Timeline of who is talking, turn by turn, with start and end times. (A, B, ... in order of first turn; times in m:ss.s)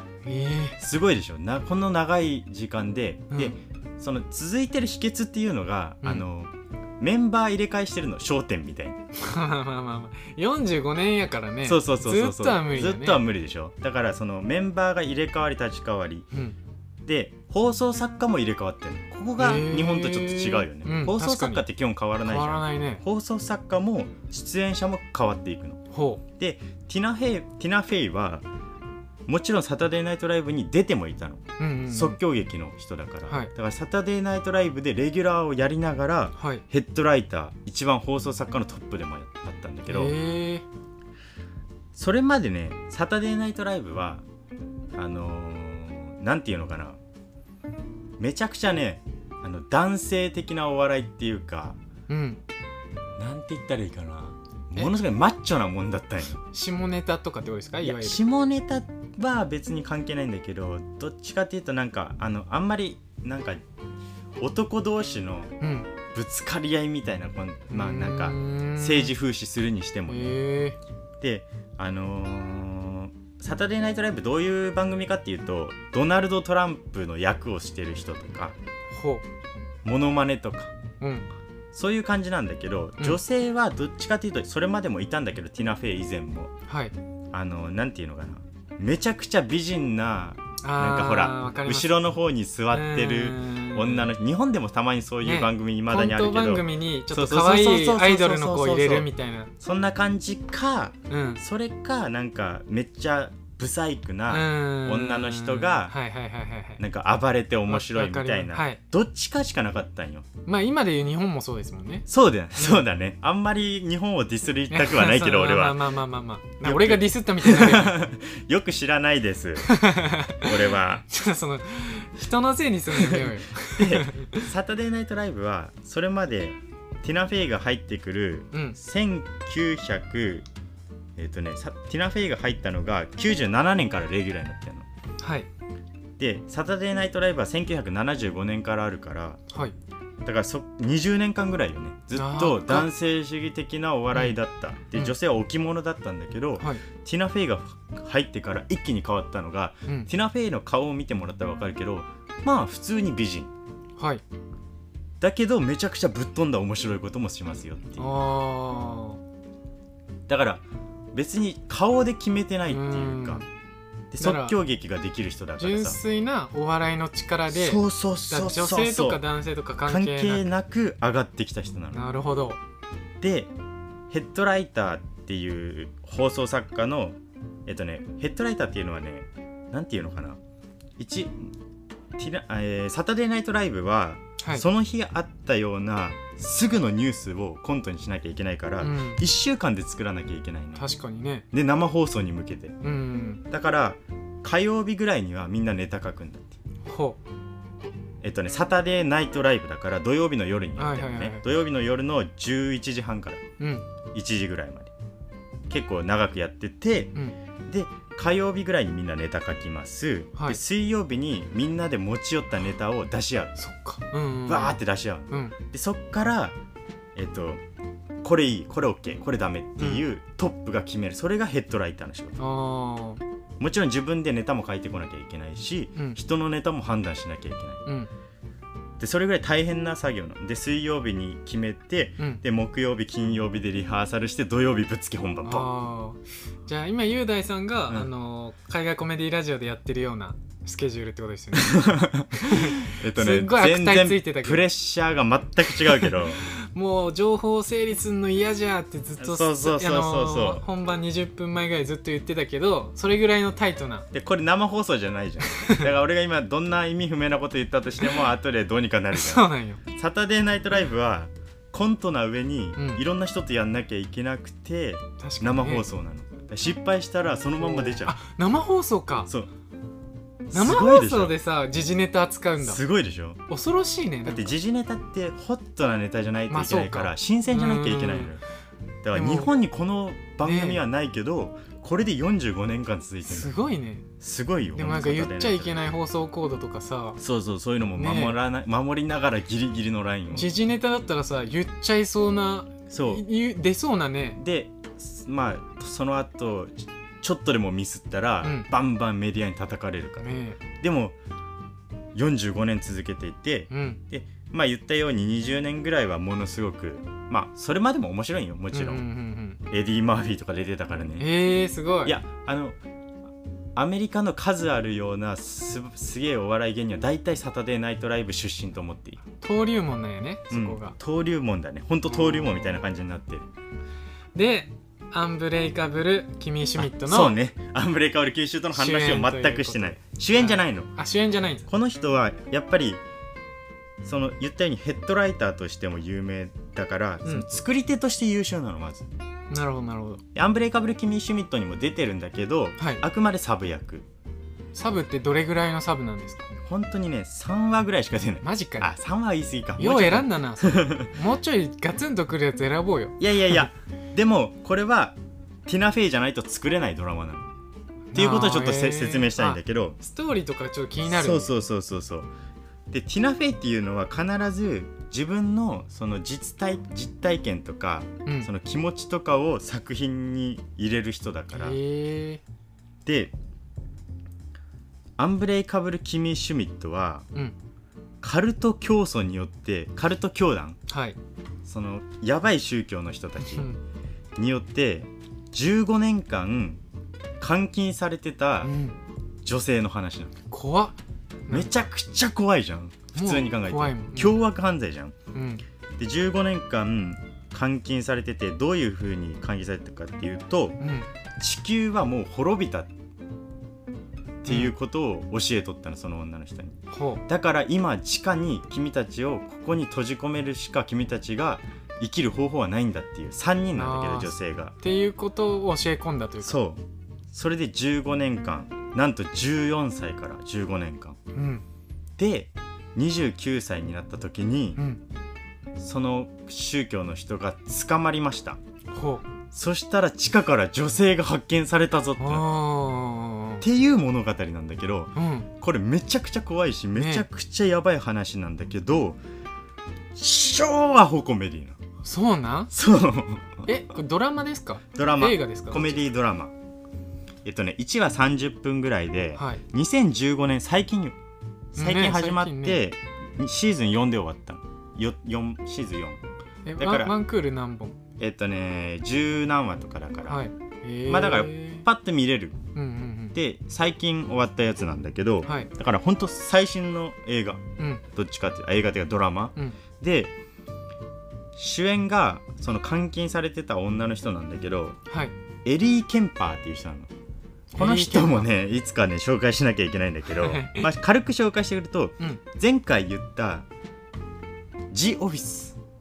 0:00.2-0:00.8 A
0:00.8-0:09.0 B
0:03.3-0:03.6 A
0:09.1-0:13.2 A
0:11.6-0:16.3 B
0:17.0-0:25.8 B
0:19.4-0:21.6 A
0:22.2-0:23.0 A
0:25.9-0:26.2 A
0:26.4-0:28.4 B
0:29.3-0:40.2 B
0:31.6-0:32.2 A
0:36.4-0:36.6 A
0:39.9-0:40.7 A
0:41.9-0:44.2 B
0:45.0-0:47.0 B
0:48.2-0:51.8 B
0:52.1-0:52.4 A
0:53.2-0:56.4 B
0:56.5-0:58.2 A
0:57.8-1:03.6 B
1:04.4-1:05.6 B
1:05.6-1:05.9 A
1:06.1-1:10.4 B
1:07.7-1:09.1 A
1:10.1-1:10.8 A
1:11.2-1:18.6 B
1:18.9-1:19.2 A
1:19.8-1:20.7 B
1:21.0-1:21.3 A
1:21.7-1:26.5 B
1:26.7-1:26.9 A
1:27.3-1:39.1 B
1:30.6-1:32.1 A
1:32.7-1:34.1 A
1:35.2-1:39.5 A
1:39.6-1:46.0 B
1:41.1-1:41.4 A
1:44.3-1:46.8 A
1:46.8-1:50.3 B
1:47.7-1:48.8 A
1:50.5-1:52.1 A
1:52.1-1:55.8 B
1:52.6-1:52.8 A
1:54.7-1:58.0 A
1:56.6-1:59.8 B
1:59.6-2:04.5 A
2:00.4-2:01.1 B
2:02.9-2:10.5 B
2:08.5-2:08.8 A
2:11.2-2:14.9 B
2:15.2-2:15.5 A
2:16.2-2:19.4 B
2:20.2-2:33.5 B
2:22.1-2:22.9 A
2:34.0-2:34.2 A
2:35.2-2:38.2 B
2:38.0-2:39.2 A
2:40.3-2:43.4 B
2:42.7-2:43.5 A
2:44.1-2:46.0 B
2:44.2-2:44.6 A
2:45.6-2:50.5 A
2:47.5-2:49.2 B
2:49.8-2:52.0 B
2:51.9-2:52.6 A
2:53.2-2:53.5 B
2:54.1-3:00.4 B
3:01.0-3:01.5 B
3:02.2-3:10.9 B
3:08.8-3:09.2 A
3:10.8-3:11.5 A
3:11.5-3:12.8 B
3:12.8-3:13.4 A
3:13.5-3:16.6 B
3:16.8-3:17.2 A
3:18.2-3:23.4 B
3:20.8-3:21.4 A
3:23.6-3:23.9 A
3:24.1-3:24.9 B
3:25.7-3:27.1 B
3:27.7-3:33.6 B
3:33.6-3:34.8 A
3:34.5-3:36.6 B
3:35.3-3:35.6 A
3:37.2-3:37.6 B
3:38.2-3:42.4 B
3:39.8-3:40.0 A
3:42.4-3:43.2 A
3:43.6-3:47.8 B
3:49.0-3:55.7 B
3:55.4-4:04.7 A
4:01.6-4:06.4 B
4:05.8-4:14.1 A
4:09.2-4:10.6 B
4:14.1-4:28.2 B
4:15.4-4:15.9 A
4:19.1-4:19.8 A
4:22.8-4:23.0 A
4:25.2-4:25.9 A
4:27.6-4:29.3 A
4:30.5-4:31.3 B
4:30.5-4:32.8 A
4:32.6-4:33.4 B
4:33.5-4:34.5 A
4:34.2-4:38.4 B
4:36.5-4:38.4 A
4:39.0-4:43.6 B
4:39.1-4:39.5 A
4:40.4-4:40.8 A
4:43.3-4:44.1 A
4:44.2-4:45.8 B
4:44.8-4:47.2 A
4:47.2-4:50.5 B
4:48.0-4:48.4 A
4:50.3-4:54.4 A
4:52.9-4:53.2 B
4:54.4-5:01.2 B
4:58.4-4:58.7 A
5:00.2-5:00.6 A
5:02.2-5:09.1 B
5:03.7-5:04.0 A
5:08.7-5:09.6 A
5:09.7-5:11.3 B
5:11.2-5:12.2 A
5:12.0-5:12.8 B
5:13.8-5:19.2 B
5:19.4-5:21.0 A
5:20.5-5:23.5 B
5:24.4-5:27.3 A
5:26.8-5:30.9 B
5:28.7-5:31.7 A
5:31.7-5:33.0 B
5:34.0-5:39.1 B
5:39.5-5:40.2 A
5:40.4-5:44.1 B
5:42.8-5:43.0 A
5:44.7-5:46.5 A
5:46.6-5:51.1 B
5:48.4-5:48.9 A
5:49.8-5:53.6 A
5:53.2-5:57.5 B
5:58.1-6:01.5 A
5:58.1-6:00.0 B
6:01.0-6:02.3 B
6:02.9-6:11.8 B
6:11.5-6:12.4 A
6:13.0-6:13.3 B
6:15.2-6:17.3 B
6:18.2-6:20.8 B
6:20.9-6:21.2 A
6:21.6-6:23.7 B
6:23.4-6:23.8 A
6:24.4-6:26.8 B
6:27.4-6:28.7 B
6:28.6-6:29.0 A
6:29.4-6:30.4 B
6:30.5-6:31.0 A
6:31.5-6:31.7 A
6:31.5-6:35.2 B
6:33.2-6:34.4 A
6:35.3-6:35.6 A
6:36.0-6:40.8 B
6:40.8-6:41.1 A
6:41.4-6:42.9 B
6:44.4-6:54.8 B
6:44.5-6:44.7 A
6:46.9-6:47.2 A
6:53.8-6:56.6 A
6:56.4-7:01.2 B
7:01.3-7:01.6 A
7:02.2-7:04.8 B
7:05.8-7:08.6 B
7:08.9-7:09.2 A
7:09.5-7:12.5 B
7:12.2-7:13.6 A
7:13.6-7:19.2 B
7:15.2-7:15.5 A
7:17.0-7:17.3 A
7:20.1-7:21.8 B
7:22.0-7:22.7 A
7:22.7-7:23.7 B
7:23.7-7:26.0 A
7:24.9-7:26.6 B
7:27.4-7:31.2 B
7:29.4-7:29.6 A
7:31.8-7:32.8 A
7:31.8-7:36.2 B
7:36.7-7:38.0 A
7:36.8-7:37.1 B
7:38.2-7:40.4 B
7:40.3-7:41.8 A
7:41.1-7:42.6 B
7:42.8-7:43.4 A
7:43.3-7:50.3 B
7:47.8-7:48.0 A
7:51.6-7:55.0 B
7:55.6-7:57.1 B
7:57.8-7:58.5 A
7:57.8-8:03.7 B
8:00.4-8:00.9 A
8:04.9-8:05.8 B